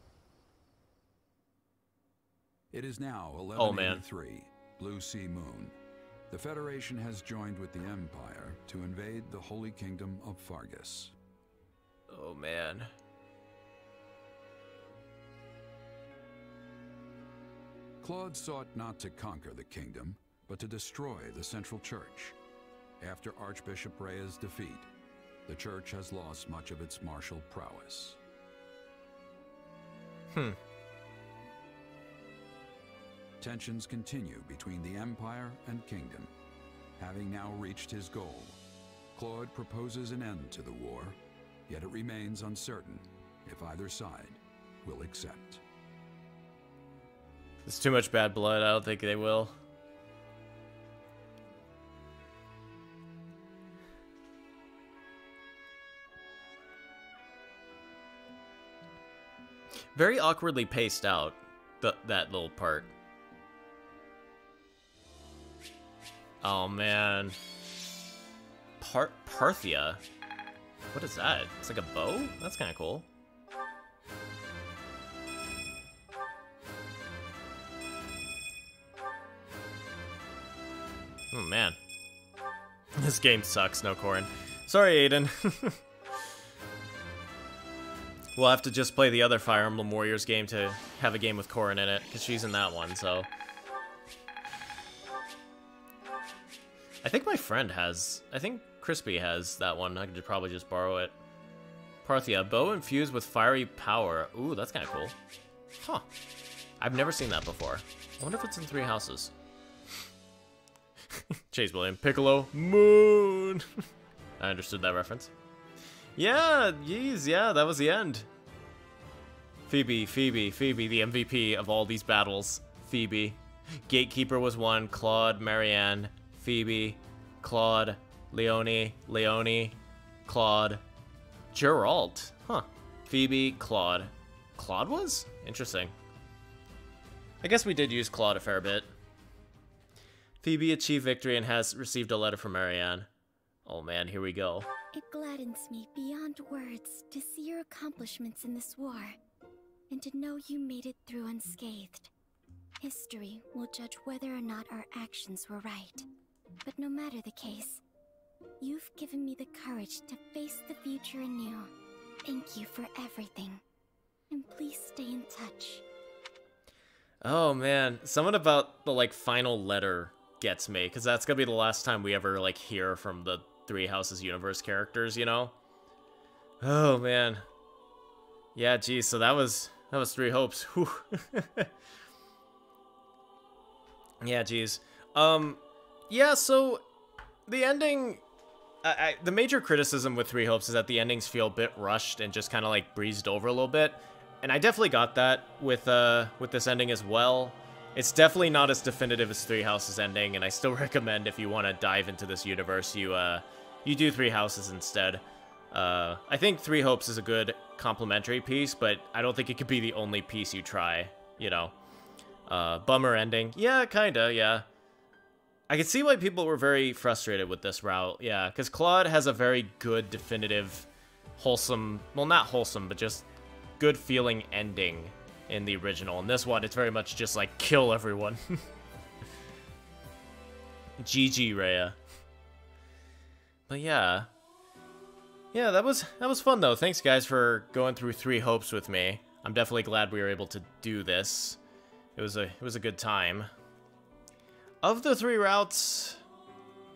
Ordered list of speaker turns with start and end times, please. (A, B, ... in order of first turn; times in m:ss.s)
0:02.7-0:05.8 A
0:03.6-0:04.0 B
0:06.3-0:11.1 A
0:12.1-0:12.9 B
0:18.0-0:22.4 A
0:23.0-0:24.9 A
0:25.5-0:28.2 A
0:30.3-0:30.6 B
0:33.4-0:36.3 A
0:37.0-0:38.6 A
0:39.2-0:45.6 A
0:47.7-0:49.6 B
1:00.0-1:02.9 B
1:06.4-1:07.4 B
1:08.8-1:10.0 B
1:10.9-1:13.1 B
1:21.3-1:21.8 B
1:23.0-1:25.8 B
1:28.4-1:33.3 B
1:37.0-1:41.2 B
1:42.0-1:45.2 B
1:45.8-1:46.1 B
1:46.8-1:49.3 B
1:51.1-1:53.6 B
1:54.4-1:55.3 B
1:56.2-1:58.3 B
1:59.7-2:10.8 B
2:11.5-2:15.9 B
2:17.4-2:18.9 B
2:20.4-2:23.1 B
2:23.6-2:24.7 B
2:24.9-2:29.2 C
2:29.9-2:32.1 C
2:32.8-2:36.1 C
2:36.6-2:37.8 C
2:38.6-2:41.7 C
2:42.2-2:43.6 C
2:44.3-2:45.8 C
2:47.2-2:55.5 B
2:56.6-2:57.5 B
2:58.6-3:01.7 B
3:04.2-3:06.8 B
3:07.5-3:08.2 B
3:08.8-3:31.7 B
3:32.5-3:34.7 B
3:35.7-3:43.2 B
3:43.8-3:48.6 B
3:51.0-3:52.0 B
3:53.7-3:54.3 B
3:55.5-4:01.6 B
4:02.2-4:03.5 B
4:04.8-4:06.2 B